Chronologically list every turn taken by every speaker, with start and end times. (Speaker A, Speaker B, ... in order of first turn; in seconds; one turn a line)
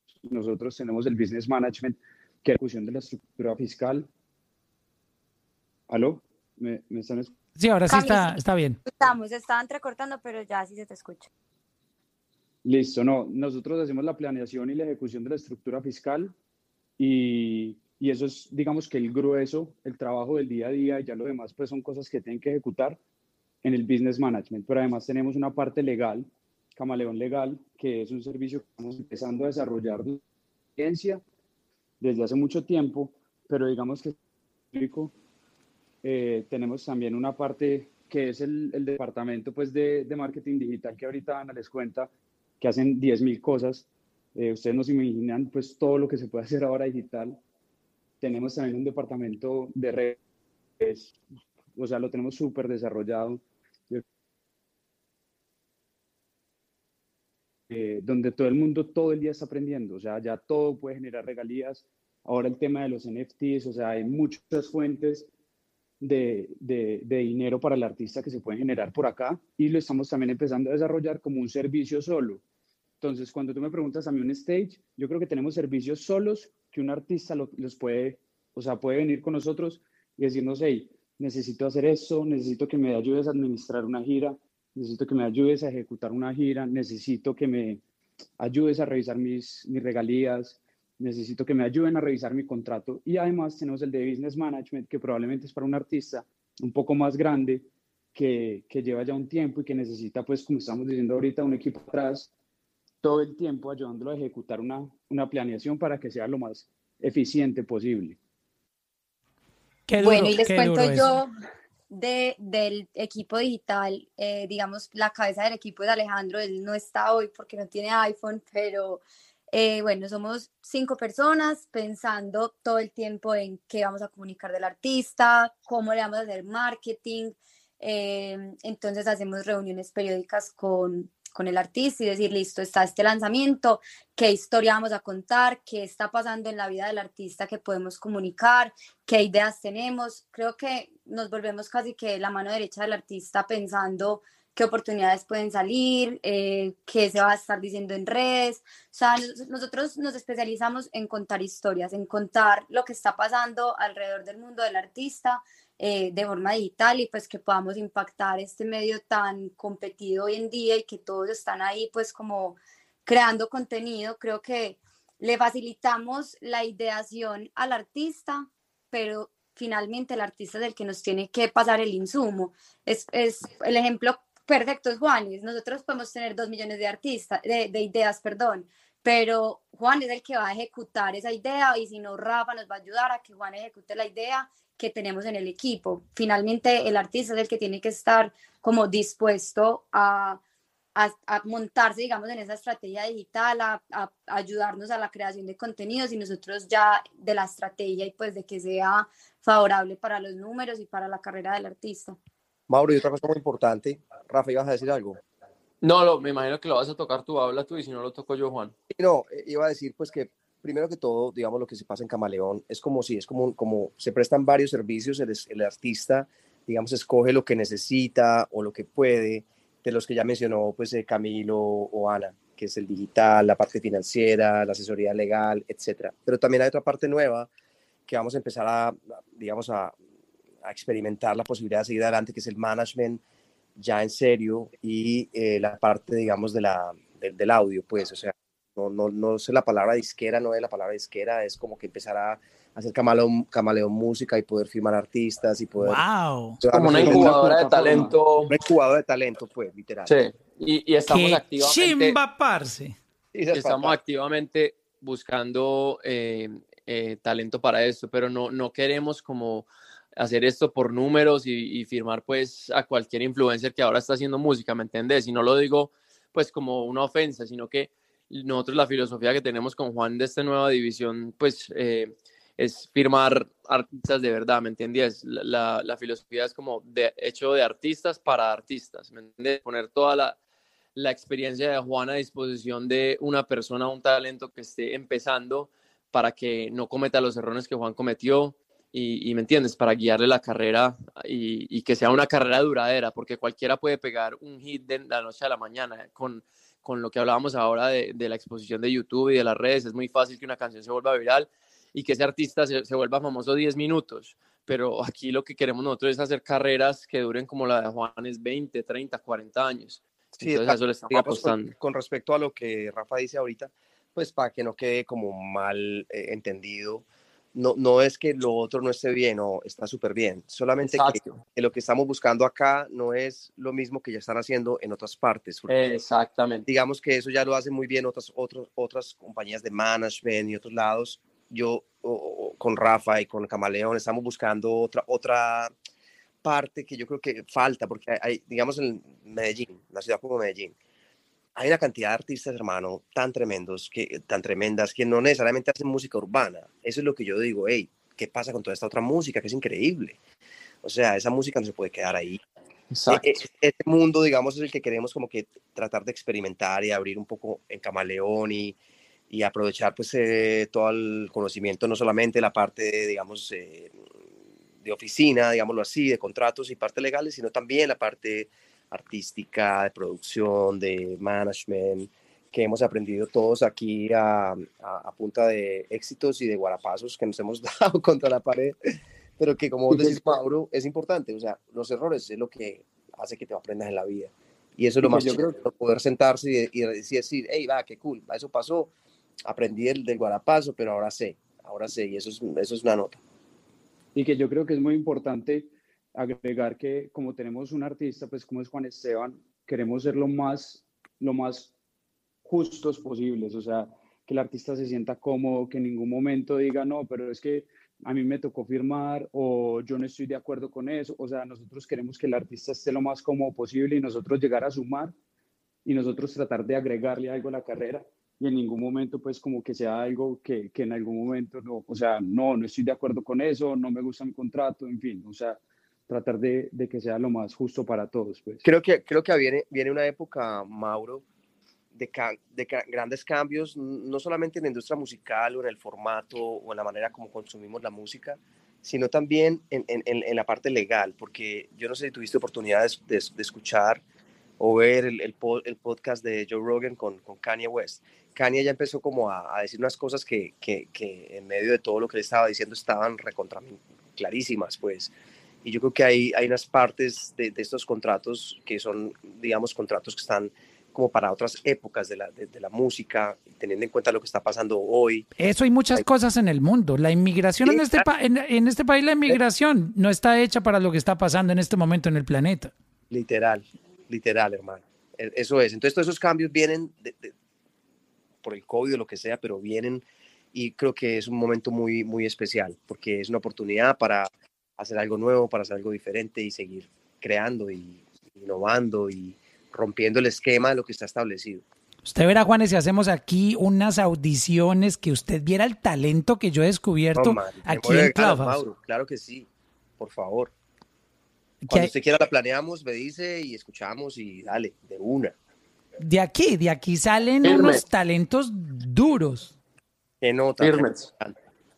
Speaker A: 0.2-4.1
Speaker A: 5.9-7.3
Speaker B: 7.6-8.8
Speaker C: 7.9-8.3
Speaker C: 8.9-11.3
Speaker A: 12.6-16.3
Speaker A: 17.0-23.0
Speaker A: 23.6-30.2
Speaker A: 30.8-31.2
Speaker A: 32.0-34.2
Speaker A: 34.7-35.1
Speaker A: 36.0-47.4
Speaker A: 48.2-50.2
Speaker A: 50.8-51.2
Speaker A: 51.7-54.0
Speaker A: 57.7-65.3
Speaker A: 66.0-72.4
Speaker A: 73.0-87.8
Speaker A: 88.4-102.3
Speaker A: 103.0-108.2
Speaker B: 109.9-111.1
Speaker C: 110.0-111.3
Speaker C: 111.9-190.4
Speaker C: 190.9-202.2
Speaker D: 202.7-205.2
Speaker E: 205.8-208.7
Speaker D: 208.9-227.5
Speaker D: 228.1-229.9
Speaker D: 230.6-233.2
Speaker D: 233.8-246.0
Speaker B: 245.8-246.6
Speaker D: 246.6-250.1
Speaker E: 246.7-248.5
Speaker A: 247.0-247.4
Speaker E: 250.1-252.2
Speaker B: 251.1-252.9
Speaker D: 253.3-254.0
Speaker E: 253.5-280.4
Speaker E: 280.9-311.7
Speaker D: 310.4-325.8
Speaker E: 320.8-321.4
Speaker E: 325.7-326.7
Speaker D: 326.7-335.7
Speaker D: 336.4-340.7
Speaker D: 341.6-350.2
Speaker D: 350.8-352.4
Speaker E: 352.9-353.2
Speaker D: 353.1-358.8
Speaker D: 359.3-364.0
Speaker D: 364.8-378.8
Speaker D: 379.4-388.9
Speaker A: 385.0-385.6
Speaker D: 389.4-393.2
Speaker A: 394.1-401.7
Speaker A: 402.4-415.1
Speaker A: 415.9-428.6
Speaker D: 428.6-431.2
Speaker D: 431.9-444.0
Speaker D: 444.6-455.1
Speaker D: 455.6-465.3
Speaker B: 465.4-472.7
Speaker D: 467.7-468.0
Speaker D: 473.1-477.3
Speaker D: 478.4-491.6
Speaker B: 492.0-498.6
Speaker D: 497.1-500.5
Speaker B: 501.6-501.9
Speaker D: 501.7-505.4
Speaker B: 506.0-509.5
Speaker E: 507.4-507.8
Speaker D: 510.2-511.4
Speaker E: 510.6-511.1